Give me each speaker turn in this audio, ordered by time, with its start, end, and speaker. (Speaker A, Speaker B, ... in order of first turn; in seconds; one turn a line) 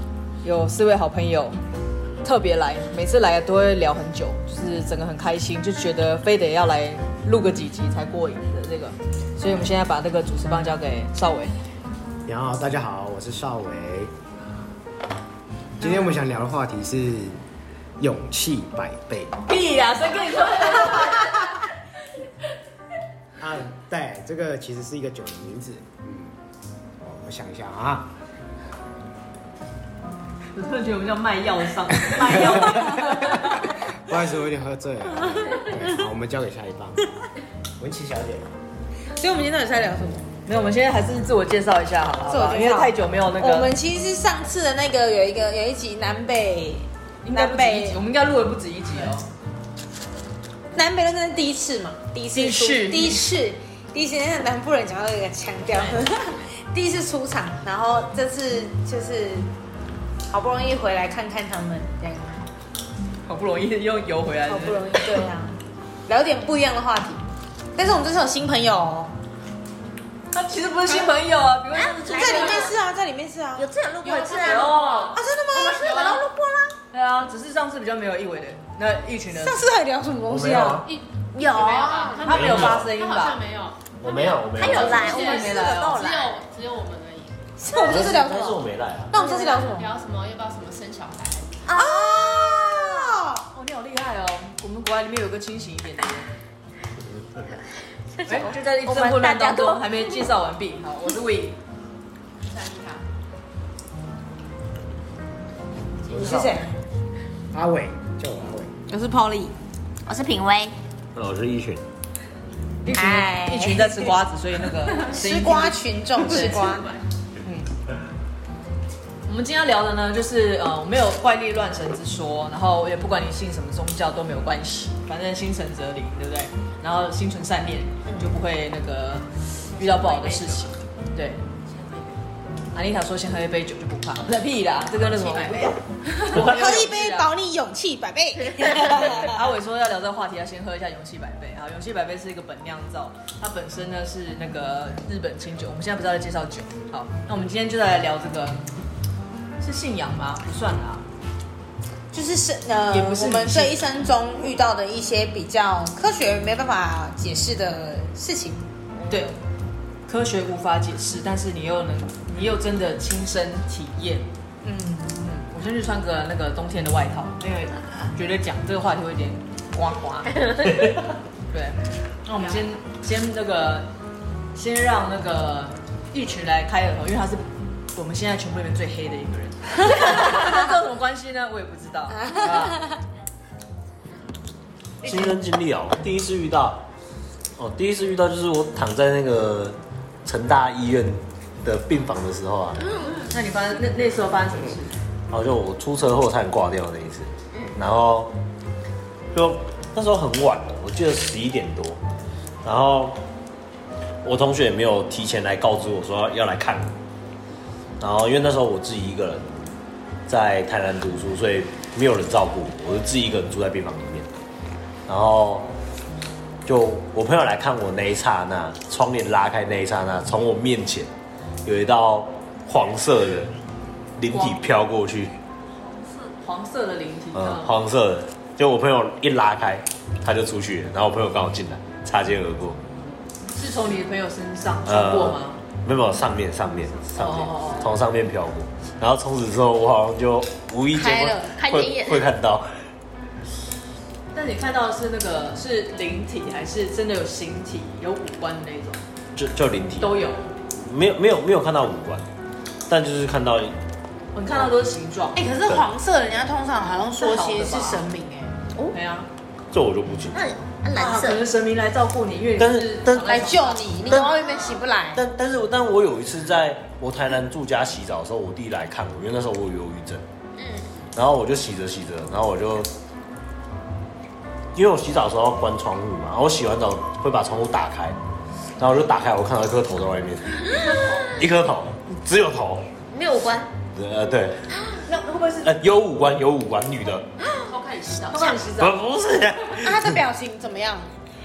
Speaker A: 0.4-1.6
Speaker A: 2.2-11.6
Speaker B: 12.2-14.1
Speaker B: 15.8-17.4
Speaker B: 18.0-19.3
Speaker A: 19.4-21.4
Speaker C: 20.9-21.3
Speaker B: 23.4-26.3
Speaker B: 27.0-28.1
Speaker A: 30.5-33.6
Speaker B: 34.0-37.0
Speaker B: 37.8-38.5
Speaker D: 39.1-40.3
Speaker A: 40.5-43.7
Speaker D: 42.2-48.0
Speaker A: 47.2-49.3
Speaker D: 50.7-59.5
Speaker A: 52.3-53.3
Speaker D: 60.3-62.4
Speaker A: 63.2-65.2
Speaker D: 64.5-69.2
Speaker A: 70.3-72.7
Speaker E: 71.7-72.8
Speaker D: 72.1-76.2
Speaker E: 73.5-74.9
Speaker C: 74.2-75.2
Speaker A: 74.3-75.2
Speaker E: 75.5-76.8
Speaker C: 75.8-76.2
Speaker A: 76.9-79.6
Speaker D: 79.4-80.9
Speaker F: 80.3-80.9
Speaker C: 80.8-87.4
Speaker E: 81.3-82.3
Speaker A: 82.2-83.4
Speaker F: 82.3-82.8
Speaker F: 84.0-85.1
Speaker E: 84.4-85.6
Speaker A: 84.6-86.0
Speaker D: 84.9-86.4
Speaker D: 87.6-89.9
Speaker F: 87.7-89.1
Speaker E: 89.1-89.6
Speaker C: 89.2-91.9
Speaker E: 91.7-93.1
Speaker D: 91.8-93.4
Speaker A: 93.5-96.3
Speaker E: 98.2-100.2
Speaker A: 98.2-101.6
Speaker C: 102.4-103.0
Speaker D: 106.1-106.7
Speaker B: 106.1-106.6
Speaker B: 107.5-108.7
Speaker D: 108.9-109.5
Speaker E: 110.0-110.8
Speaker F: 111.1-111.8
Speaker A: 112.8-116.9
Speaker D: 112.9-114.2
Speaker D: 115.0-116.9
Speaker C: 116.2-117.0
Speaker A: 119.2-131.4
Speaker C: 129.7-130.8
Speaker C: 131.6-132.3
Speaker A: 132.7-137.3
Speaker C: 134.9-135.8
Speaker D: 136.3-139.3
Speaker F: 136.3-136.8
Speaker A: 138.8-148.6
Speaker A: 149.6-151.1
Speaker D: 152.1-158.7
Speaker A: 152.9-153.8
Speaker A: 159.1-159.4
Speaker A: 160.1-164.3
Speaker D: 164.6-165.1
Speaker A: 165.1-170.4
Speaker E: 170.4-170.6
Speaker A: 171.5-173.9
Speaker A: 174.5-182.8
Speaker D: 182.3-182.7
Speaker F: 185.0-186.8
Speaker A: 185.1-185.3
Speaker F: 187.6-192.8
Speaker A: 193.3-194.9
Speaker F: 195.3-198.3
Speaker F: 199.3-202.0
Speaker F: 202.6-203.2
Speaker F: 204.2-206.9
Speaker F: 208.0-209.7
Speaker F: 210.3-214.3
Speaker F: 215.1-215.7
Speaker F: 216.7-221.1
Speaker F: 221.6-223.5
Speaker F: 224.2-225.3
Speaker A: 224.3-224.6
Speaker A: 226.4-227.7
Speaker F: 227.3-232.8
Speaker A: 233.5-235.6
Speaker F: 234.8-242.8
Speaker A: 237.2-237.9
Speaker D: 240.9-241.6
Speaker E: 241.6-242.2
Speaker A: 244.3-249.0
Speaker F: 249.4-250.2
Speaker A: 250.0-250.5
Speaker F: 250.7-252.2
Speaker F: 252.9-253.8
Speaker A: 254.3-255.5
Speaker D: 255.3-258.6
Speaker A: 257.2-258.1
Speaker A: 258.9-259.3
Speaker F: 259.7-260.4
Speaker E: 260.3-261.4
Speaker A: 260.9-264.3
Speaker F: 262.6-263.5
Speaker D: 263.2-265.2
Speaker E: 264.1-264.8
Speaker F: 265.1-270.2
Speaker E: 270.6-270.9
Speaker F: 271.1-272.9
Speaker F: 274.7-278.2
Speaker F: 278.8-282.9
Speaker C: 280.8-281.3
Speaker E: 280.8-281.3
Speaker E: 283.1-283.7
Speaker F: 283.9-284.6
Speaker A: 285.1-285.8
Speaker F: 285.6-287.3
Speaker E: 287.4-287.7
Speaker C: 287.6-288.8
Speaker A: 288.3-289.0
Speaker F: 288.6-290.2
Speaker D: 289.7-291.1